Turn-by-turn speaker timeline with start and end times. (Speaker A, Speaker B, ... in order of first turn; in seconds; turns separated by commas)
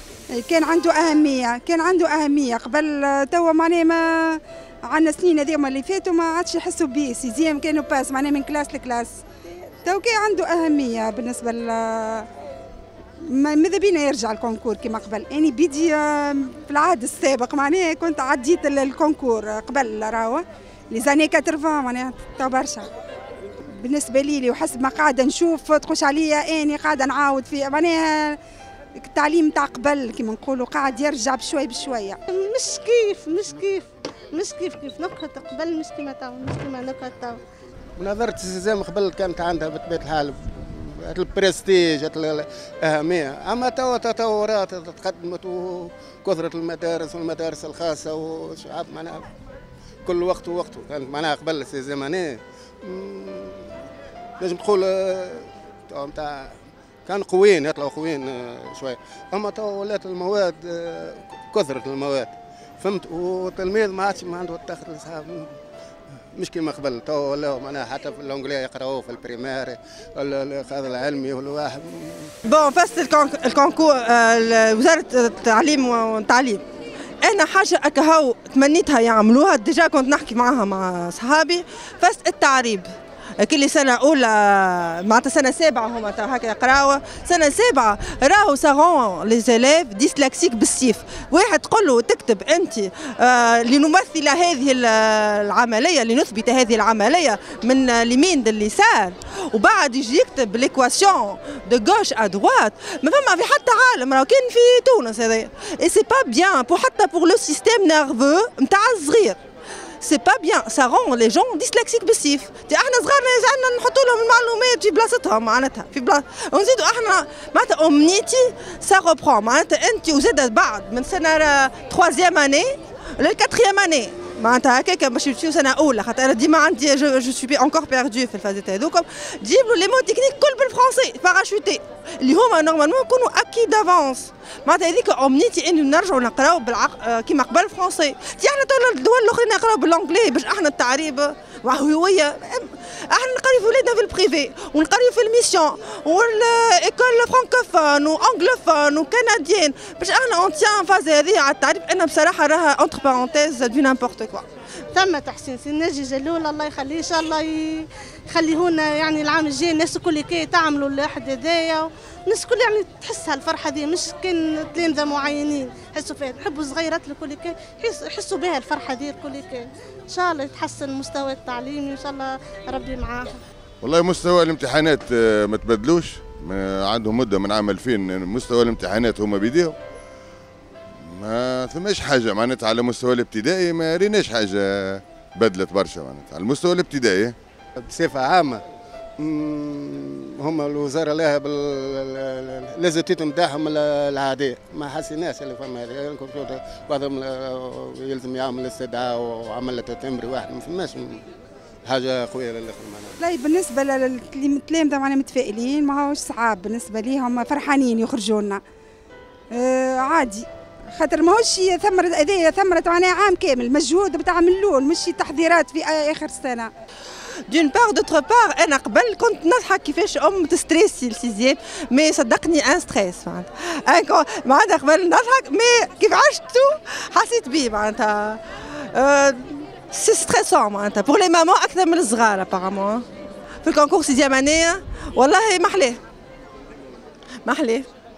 Speaker A: 0.3-9.2, Speaker A: 9.8-12.3, Speaker A: 13.2-22.9, Speaker A: 23.8-28.4, Speaker A: 29.0-32.2, Speaker B: 32.3-37.4, Speaker C: 38.0-49.3, Speaker C: 50.0-53.8, Speaker C: 54.4-65.5, Speaker C: 66.3-72.3, Speaker D: 72.4-76.6, Speaker D: 77.2-109.4, Speaker D: 110.0-154.5, Speaker B: 154.9-173.4, Speaker E: 173.8-179.8, Speaker E: 181.0-187.3, Speaker C: 187.8-188.6, Speaker C: 189.2-201.2, Speaker C: 201.8-203.2, Speaker A: 203.2-208.6, Speaker A: 209.5-216.7, Speaker D: 217.5-233.1, Speaker D: 233.6-236.0, Speaker D: 237.4-237.9